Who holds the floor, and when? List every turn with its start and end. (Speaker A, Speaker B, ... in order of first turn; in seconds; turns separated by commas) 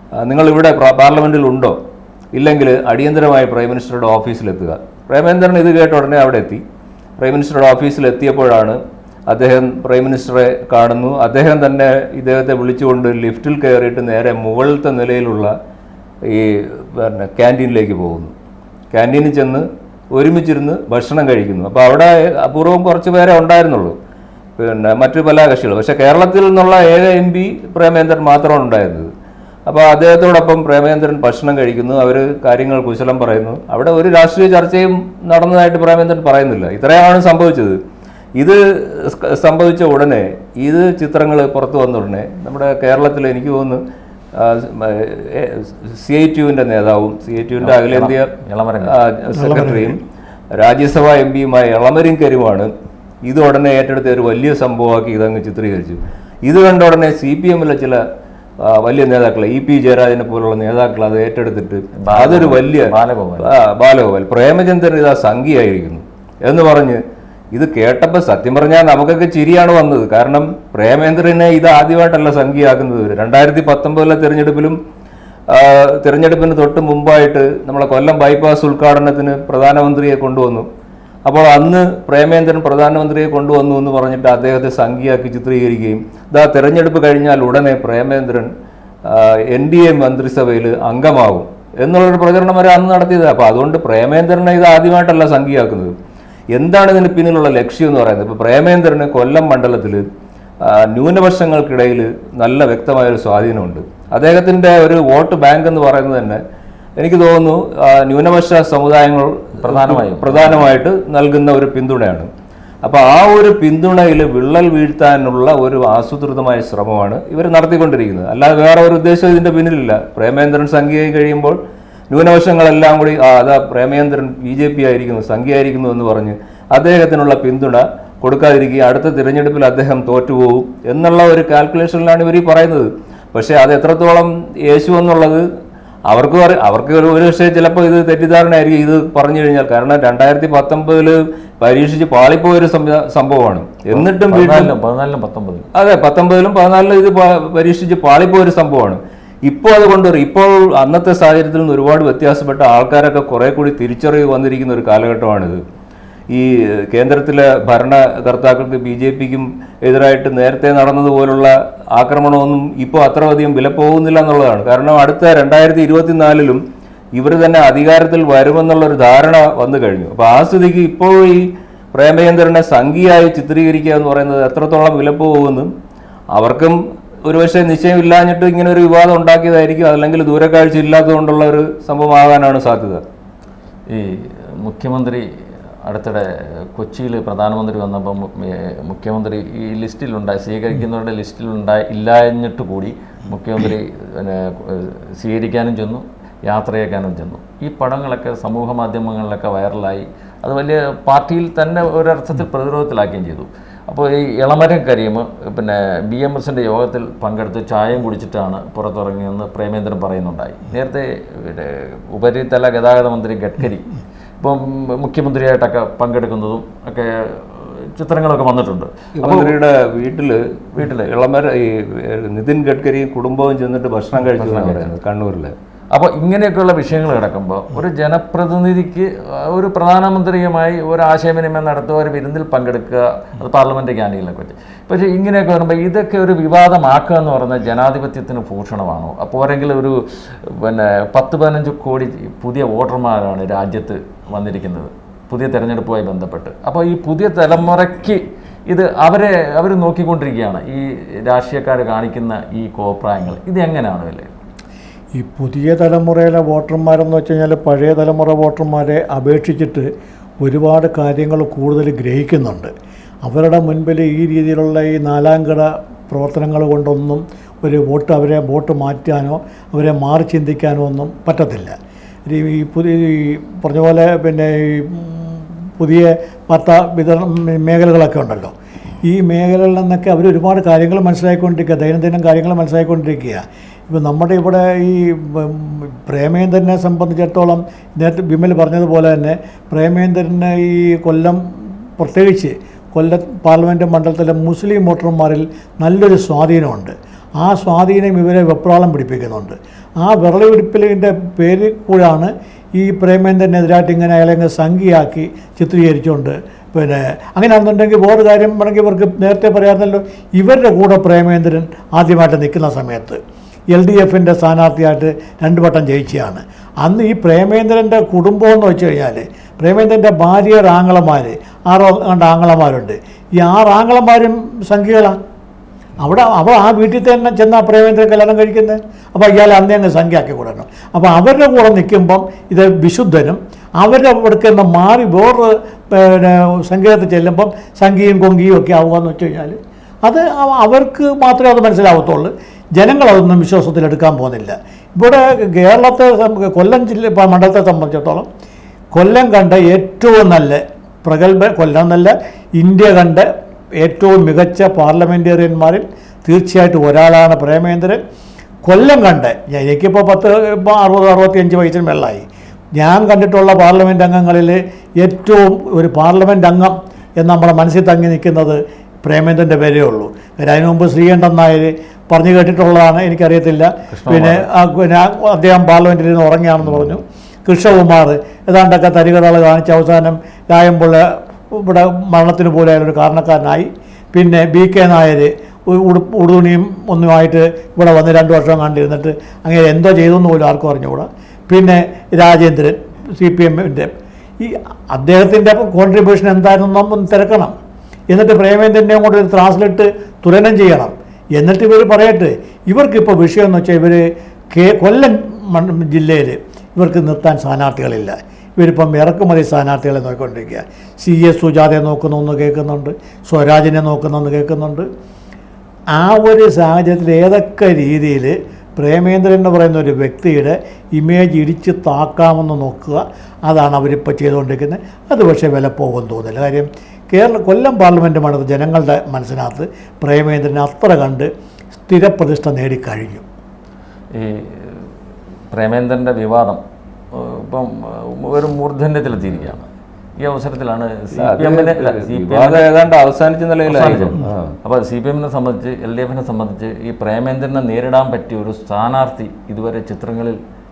Speaker A: 0.2-1.8, Speaker A: 2.3-6.6, Speaker A: 7.2-15.5, Speaker A: 16.2-18.3, Speaker A: 18.9-23.9, Speaker A: 24.6-29.1, Speaker A: 29.6-37.8, Speaker A: 38.4-43.8, Speaker A: 44.3-48.3, Speaker B: 47.6-49.0, Speaker A: 48.9-50.0, Speaker C: 49.3-50.0, Speaker A: 50.5-52.7, Speaker A: 53.2-58.0, Speaker A: 58.6-67.0, Speaker B: 62.0-63.5, Speaker A: 67.5-74.8, Speaker A: 75.5-80.7, Speaker A: 81.2-88.5, Speaker A: 89.0-95.9, Speaker A: 96.5-100.0, Speaker A: 100.6-106.4, Speaker A: 107.0-112.3, Speaker B: 109.6-110.7, Speaker A: 112.8-121.6, Speaker A: 122.1-135.4, Speaker A: 136.1-144.7, Speaker B: 143.9-145.7, Speaker A: 145.7-155.6, Speaker A: 156.3-166.6, Speaker A: 167.2-175.7, Speaker A: 176.3-183.0, Speaker B: 183.9-185.3, Speaker B: 185.8-219.6, Speaker A: 219.2-225.5, Speaker B: 224.3-224.9, Speaker B: 225.9-254.3, Speaker C: 255.2-259.9, Speaker C: 260.4-262.7, Speaker C: 263.2-313.2, Speaker C: 313.7-325.2, Speaker C: 326.0-348.3, Speaker C: 348.9-353.3, Speaker C: 353.8-358.0, Speaker C: 358.6-397.5, Speaker B: 373.9-374.4, Speaker C: 398.1-414.9, Speaker C: 415.9-431.3, Speaker C: 431.9-433.2, Speaker B: 434.1-434.9, Speaker B: 435.5-442.7, Speaker A: 441.1-444.6, Speaker B: 443.6-450.4